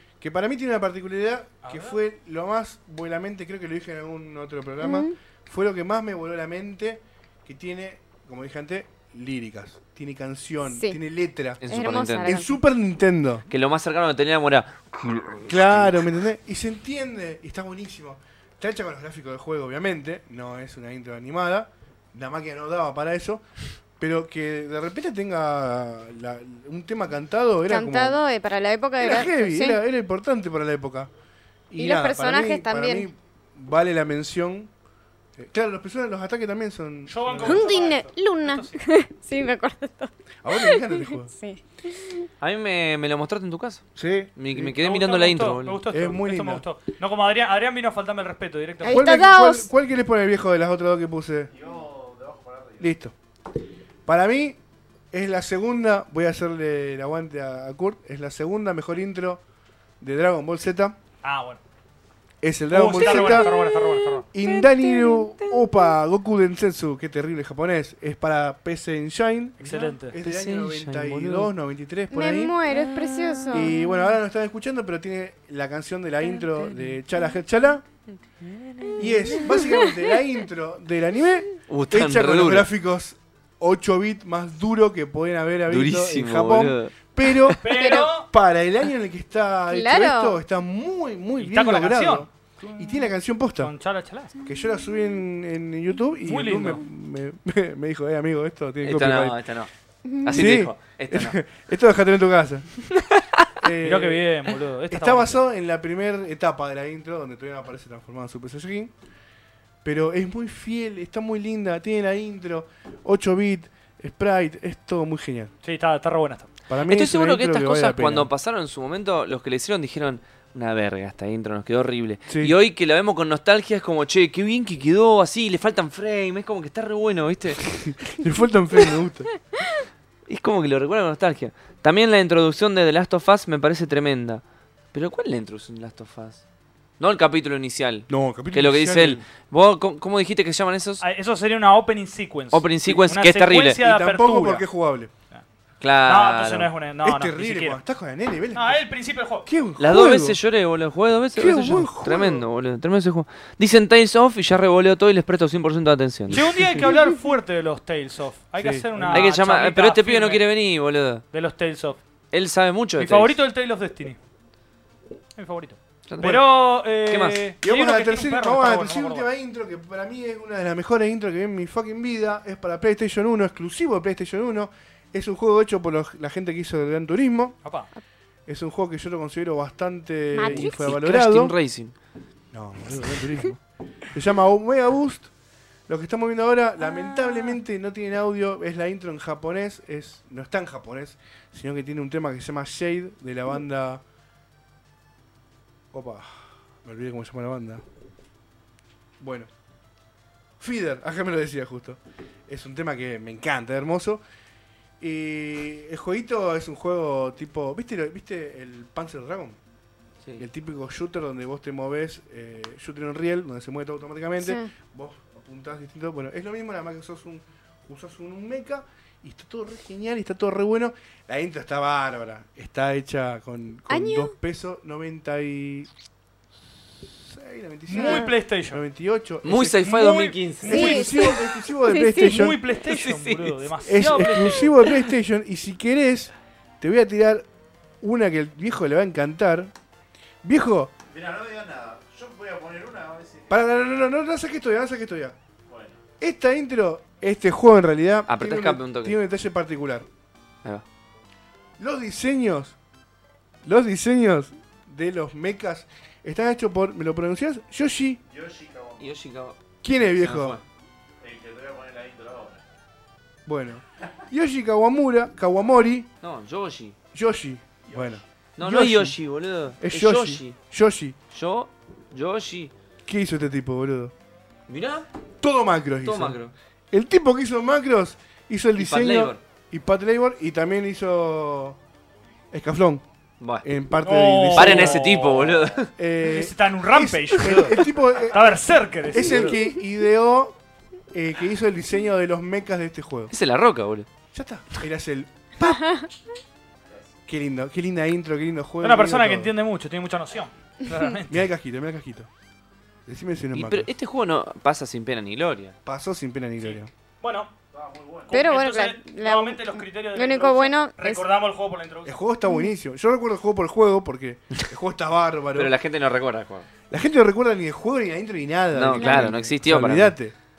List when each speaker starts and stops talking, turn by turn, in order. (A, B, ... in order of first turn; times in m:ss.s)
0:00.2-0:13.4 A
0:01.6-0:02.0 B
0:04.8-0:05.1 C
0:10.6-0:11.0 C
0:11.6-0:12.4 D
0:11.6-0:12.6 C
0:13.5-0:16.1 D
0:15.4-0:23.4 A
0:24.0-0:28.2 A
0:27.7-0:29.8 C
0:29.0-0:31.1 A
0:31.7-0:34.7 A
0:31.8-0:33.1 C
0:35.4-0:37.7 A
0:37.1-0:38.8 B
0:37.4-0:42.3 C
0:40.4-0:41.3 A
0:42.4-0:43.8 D
0:43.9-0:44.7 A
0:44.4-0:45.8 D
0:44.7-0:49.1 B
0:45.9-0:46.6 A
0:48.8-0:49.7 C
0:48.9-0:51.5 A
0:51.5-0:53.0 E
0:52.8-0:53.1 A
0:54.0-0:54.6 A
0:55.1-0:59.4 A
1:00.0-1:01.0 A
1:01.2-1:01.6 B
1:02.4-1:03.5 A
1:02.7-1:04.2 B
1:04.3-1:12.6 A
1:04.4-1:05.6 D
1:04.7-1:05.2 C
1:09.6-1:10.1 B
1:09.6-1:11.5 D
1:12.1-1:14.0 C
1:12.8-1:13.7 D
1:13.5-1:17.8 A
1:16.3-1:17.0 D
1:18.4-1:19.6 D
1:19.0-1:33.7 A
1:19.4-1:20.0 C
1:21.7-1:22.7 D
1:25.7-1:27.6 D
1:27.6-1:28.3 B
1:27.7-1:28.1 C
1:29.7-1:30.4 C
1:31.4-1:34.3 B
1:34.4-1:39.4 A
1:36.2-1:36.8 B
1:38.8-1:39.7 D
1:40.1-1:40.5 C
1:40.2-1:41.4 D
1:40.3-1:42.7 A
1:43.0-1:43.5 D
1:43.6-1:44.2 A
1:43.8-1:45.4 B
1:44.9-1:48.9 A
1:49.8-1:55.5 A
1:55.6-1:56.5 B
1:56.7-1:58.3 A
1:56.8-2:07.6 D
2:02.3-2:02.5 A
2:07.6-2:09.3 A
2:10.3-2:14.4 D
2:14.9-2:16.4 D
2:17.0-2:21.0 D
2:18.1-2:19.2 A
2:21.0-2:24.6 B
2:22.5-2:23.8 D
2:23.8-2:25.1 A
2:25.8-2:26.7 D
2:26.0-2:27.8 B
2:27.0-2:28.8 A
2:28.5-2:29.5 B
2:29.4-2:30.4 A
2:29.8-2:36.8 D
2:31.4-2:32.4 A
2:36.3-2:40.4 B
2:38.6-2:39.3 A
2:39.1-2:41.2 D
2:41.3-2:42.0 B
2:42.3-2:43.4 D
2:43.0-2:44.2 B
2:45.4-2:49.3 B
2:46.1-2:46.5 D
2:47.0-2:47.4 D
2:47.6-2:57.5 A
2:57.6-2:57.9 B
2:58.5-3:01.5 A
3:00.3-3:00.9 C
3:00.4-3:01.9 D
3:02.5-3:05.3 A
3:05.9-3:14.0 A
3:06.8-3:07.6 C
3:15.9-3:17.8 A
3:19.2-3:19.5 A
3:20.6-3:24.2 A
3:25.0-3:29.6 A
3:30.4-3:45.9 A
3:34.4-3:34.7 C
3:43.9-3:44.3 C
3:47.3-3:49.9 A
3:47.9-3:48.8 B
3:47.9-3:48.3 C
3:49.4-3:51.0 D
3:49.8-3:51.4 B
3:50.6-3:52.6 A
3:50.6-3:52.4 C
3:52.1-3:54.8 B
3:52.8-3:53.6 D
3:53.8-3:57.4 A
3:58.0-3:59.7 A
4:00.4-4:00.9 A
4:01.1-4:03.6 E
4:03.5-4:05.4 A
4:05.7-4:06.0 E
4:06.2-4:10.0 A
4:08.3-4:09.2 D
4:11.8-4:12.8 A
4:13.6-4:18.2 A
4:18.3-4:19.1 E
4:19.0-4:20.6 D
4:19.8-4:20.6 A
4:21.2-4:22.6 E
4:23.4-4:26.1 A
4:26.2-4:27.0 D
4:27.1-4:29.2 A
4:27.8-4:28.2 E
4:28.6-4:30.6 D
4:29.8-4:31.2 A
4:31.3-4:32.7 D
4:33.1-4:34.1 A
4:34.7-4:35.1 D
4:35.4-4:36.4 A
4:36.0-4:36.5 D
4:36.9-4:41.8 A
4:38.7-4:39.4 D
4:42.5-4:43.0 A
4:43.4-4:43.6 D
4:43.6-4:45.2 A
4:44.0-4:45.5 B
4:44.5-4:45.9 D
4:46.0-4:50.6 A
4:46.2-4:49.5 B
4:51.1-4:53.3 A
4:53.3-4:54.1 D
4:54.3-4:55.9 A
4:55.7-4:56.1 C
4:56.8-4:57.1 E
4:57.3-4:59.5 A
4:58.8-5:01.4 B
5:01.3-5:02.3 A
5:03.0-5:03.9 A
5:03.5-5:05.7 D
5:05.8-5:06.9 A
5:06.6-5:07.5 B
5:07.7-5:08.4 E
5:08.3-5:12.2 B
5:08.3-5:11.2 C
5:12.0-5:15.8 A
5:12.4-5:12.7 C
5:15.5-5:16.7 D
5:16.9-5:20.3 A
5:18.7-5:20.2 D
5:19.0-5:19.3 C